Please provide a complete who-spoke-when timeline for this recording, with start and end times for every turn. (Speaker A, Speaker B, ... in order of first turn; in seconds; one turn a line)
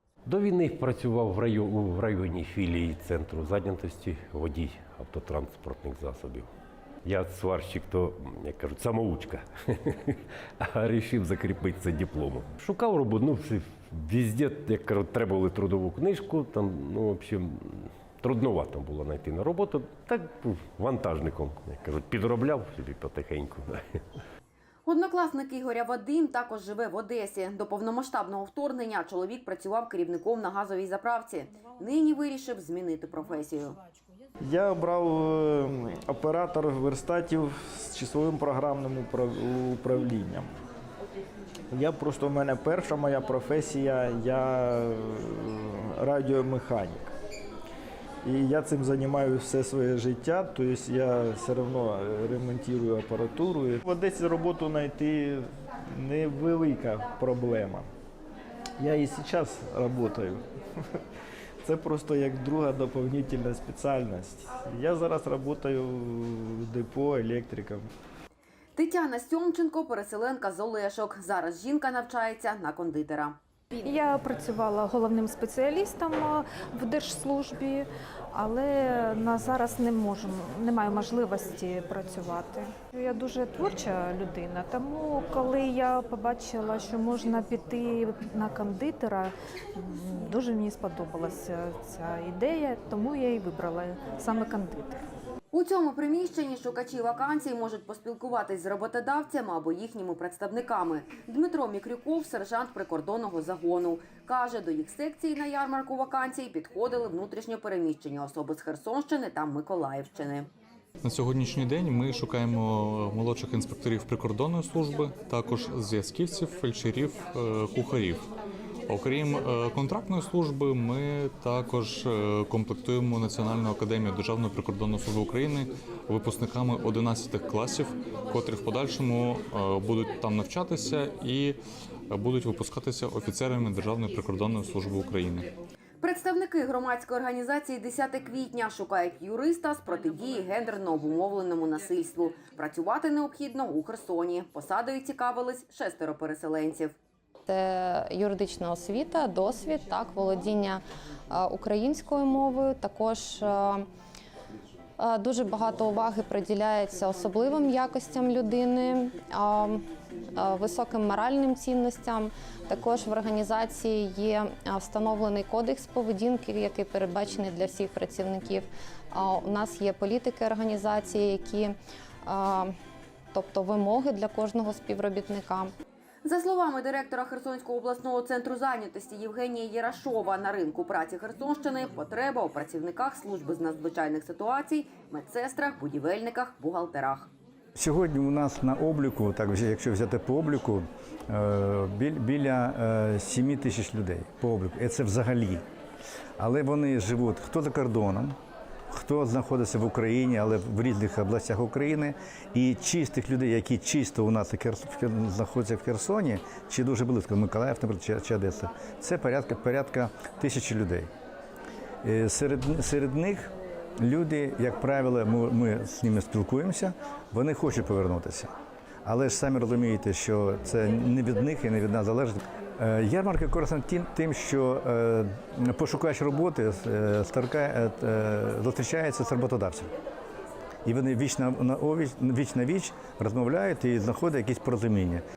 Speaker A: 0.3-6.5
Speaker A: 7.0-24.0
Speaker B: 24.9-33.8
Speaker C: 34.4-40.5
Speaker C: 41.7-47.1
Speaker C: 48.2-57.9
Speaker C: 58.8-60.4
Speaker C: 61.6-67.9
Speaker B: 68.8-73.4
Speaker D: 73.8-95.0
Speaker B: 95.5-110.5
Speaker E: 111.0-118.2
Speaker E: 118.9-131.6
Speaker E: 132.1-135.5
Speaker B: 136.0-146.9
Speaker F: 147.5-153.8
Speaker F: 155.0-159.8
Speaker F: 160.4-171.7
Speaker F: 172.2-172.7
Speaker F: 173.3-175.7
Speaker B: 176.2-187.3
Speaker G: 187.8-195.6
Speaker G: 196.4-198.4
Speaker G: 198.9-211.1
Speaker G: 212.0-213.5
Speaker G: 214.0-218.5
Speaker G: 219.0-229.9
Speaker G: 230.8-235.2